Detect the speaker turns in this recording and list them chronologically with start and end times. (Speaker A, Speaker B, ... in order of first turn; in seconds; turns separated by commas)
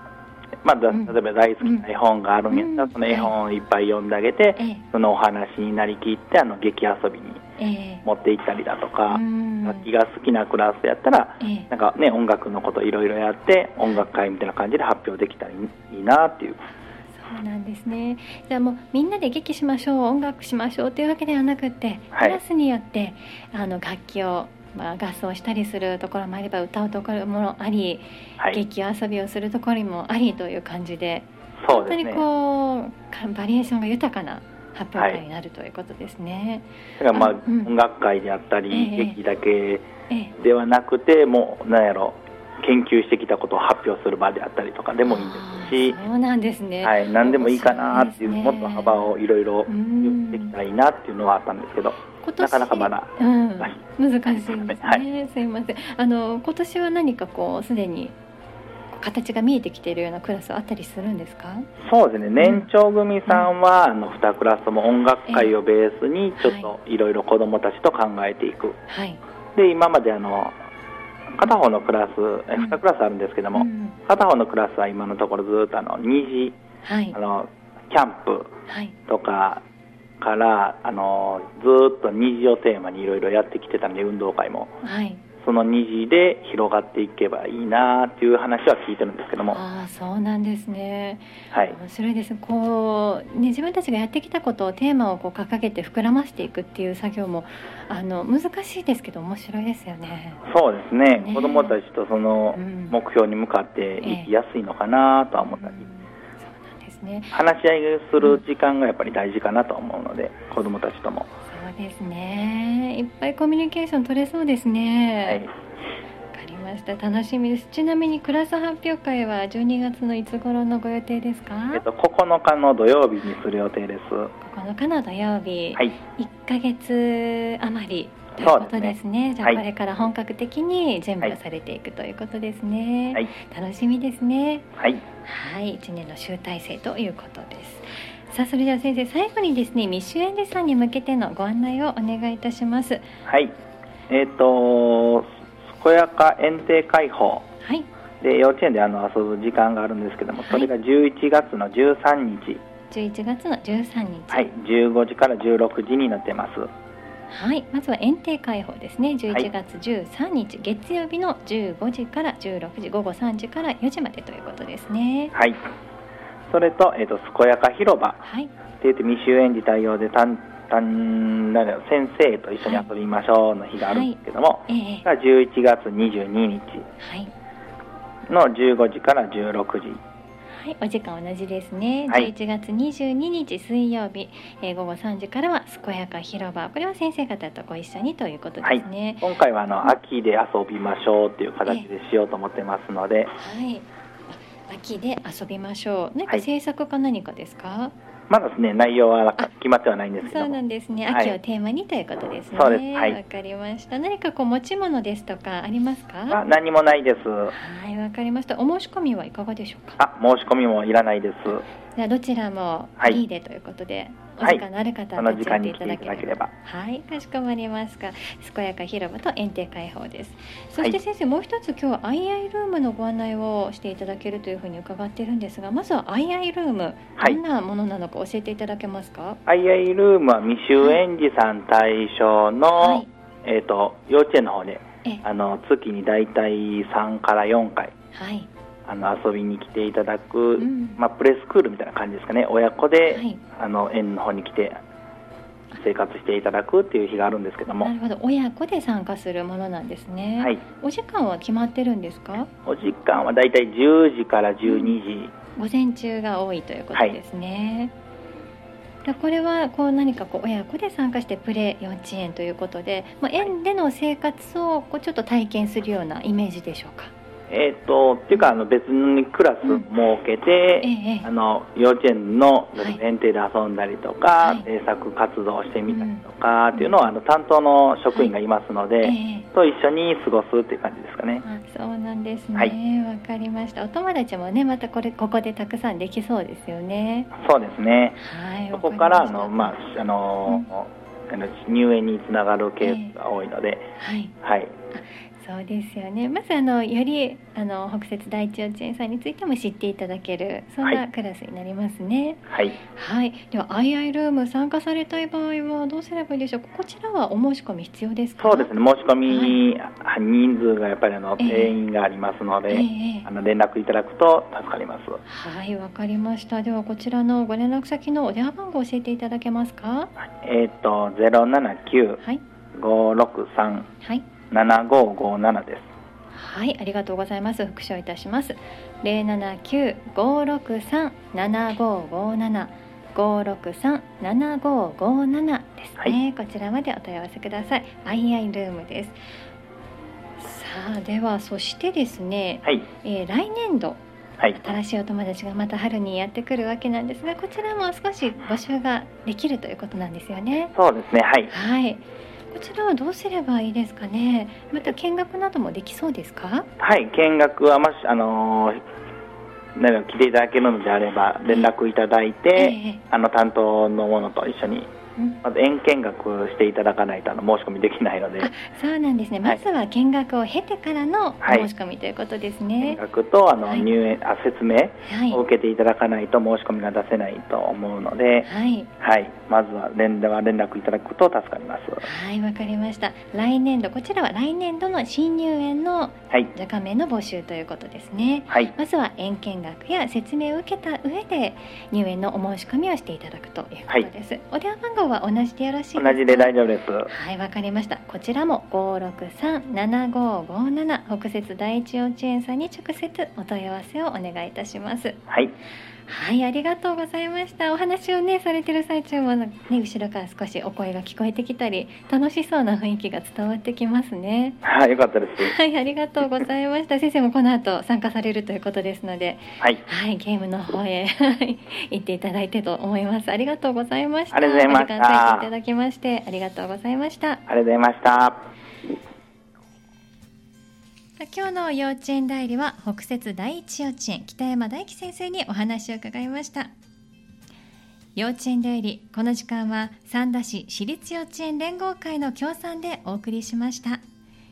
Speaker A: 0.6-7.4, Speaker B: 0.9-1.9, Speaker B: 2.5-3.3, Speaker B: 4.6-4.8, Speaker B: 7.6-8.0, Speaker A: 8.1-16.6, Speaker B: 9.1-9.9, Speaker B: 11.4-11.7, Speaker B: 17.2-37.7, Speaker A: 22.1-22.4, Speaker A: 31.6-32.2, Speaker A: 35.0-35.2, Speaker A: 37.0-46.0, Speaker B: 38.7-39.2, Speaker B: 40.1-40.3, Speaker B: 45.0-49.1, Speaker A: 46.8-55.0, Speaker B: 49.7-50.5, Speaker B: 52.2-58.1, Speaker B: 59.0-61.7, Speaker A: 61.8-68.8, Speaker B: 62.4-62.7, Speaker B: 63.3-63.5, Speaker B: 65.3-65.5, Speaker B: 66.4-66.7, Speaker B: 68.9-69.2, Speaker A: 69.5-70.6, Speaker A: 71.3-76.6, Speaker B: 73.5-74.0, Speaker B: 76.8-77.2, Speaker A: 77.1-78.5, Speaker B: 78.7-79.0, Speaker A: 79.1-79.6, Speaker A: 80.2-84.7, Speaker B: 84.8-85.2, Speaker A: 85.4-89.6, Speaker B: 89.5-100.4, Speaker A: 91.5-91.8, Speaker A: 100.5-105.8, Speaker B: 101.1-101.8, Speaker B: 102.5-103.0, Speaker B: 104.0-104.3, Speaker B: 105.4-107.4, Speaker A: 107.3-111.3, Speaker B: 111.5-115.4, Speaker A: 115.2-115.5, Speaker B: 116.3-121.8, Speaker A: 121.7-124.3, Speaker B: 124.4-134.6, Speaker A: 128.4-129.6, Speaker A: 134.8-135.0, Speaker B: 135.2-143.0, Speaker A: 143.2-143.5, Speaker A: 144.1-147.5, Speaker B: 147.6-147.9, Speaker A: 148.2-152.6, Speaker B: 150.4-150.7, Speaker B: 152.9-154.5, Speaker A: 154.3-156.7, Speaker B: 157.3-165.3, Speaker A: 165.3-165.6, Speaker A: 166.5-168.2, Speaker B: 168.2-168.5, Speaker A: 168.8-176.8, Speaker B: 172.6-172.9, Speaker B: 173.9-174.2, Speaker B: 174.7-175.1, Speaker B: 177.0-177.3, Speaker A: 178.3-180.0, Speaker B: 180.5-189.3, Speaker A: 188.6-193.3, Speaker B: 193.4-197.9, Speaker A: 198.3-200.6, Speaker B: 200.2-206.4, Speaker A: 201.1-201.4, Speaker A: 202.5-203.2, Speaker A: 206.3-207.5, Speaker B: 207.5-210.0, Speaker A: 210.0-211.6, Speaker B: 212.0-229.4, Speaker A: 215.2-216.5, Speaker A: 229.5-237.9, Speaker B: 232.8-233.1, Speaker B: 238.1-238.5, Speaker A: 238.9-244.8, Speaker B: 240.6-241.0, Speaker B: 243.1-243.4, Speaker A: 245.7-247.9, Speaker B: 247.8-252.5, Speaker A: 252.7-255.3, Speaker B: 254.7-255.0, Speaker B: 255.6-257.9, Speaker B: 259.1-267.1, Speaker A: 267.5-281.4, Speaker B: 270.8-271.3, Speaker B: 274.4-274.7, Speaker B: 275.9-277.1, Speaker B: 279.0-279.5, Speaker B: 281.4-287.3, Speaker A: 287.4-288.2, Speaker B: 288.2-289.8, Speaker A: 288.7-293.9, Speaker B: 292.8-293.1, Speaker B: 294.0-294.3, Speaker A: 294.4-294.7, Speaker B: 294.9-308.7, Speaker A: 302.5-302.8, Speaker A: 308.4-315.2, Speaker B: 309.2-309.6, Speaker B: 311.4-311.8, Speaker B: 312.7-313.3, Speaker B: 315.2-320.1, Speaker A: 320.3-322.2, Speaker A: 322.7-323.9, Speaker A: 324.5-325.9, Speaker B: 326.3-339.2, Speaker B: 340.4-344.0, Speaker B: 344.6-350.7, Speaker A: 350.8-351.5, Speaker B: 351.5-356.7, Speaker A: 356.8-358.8, Speaker A: 359.8-364.9, Speaker B: 362.6-363.0, Speaker B: 365.2-365.4, Speaker A: 365.4-368.5, Speaker B: 368.4-373.0, Speaker A: 371.4-371.7, Speaker A: 372.8-382.1, Speaker B: 375.1-375.4, Speaker B: 378.4-378.9, Speaker B: 382.0-396.5, Speaker A: 396.0-397.1, Speaker B: 397.1-405.2, Speaker A: 405.3-405.5, Speaker B: 406.1-414.6, Speaker A: 414.6-415.5, Speaker B: 415.4-427.4, Speaker A: 424.3-425.5, Speaker A: 427.5-428.5, Speaker B: 431.2-436.7, Speaker B: 438.1-444.0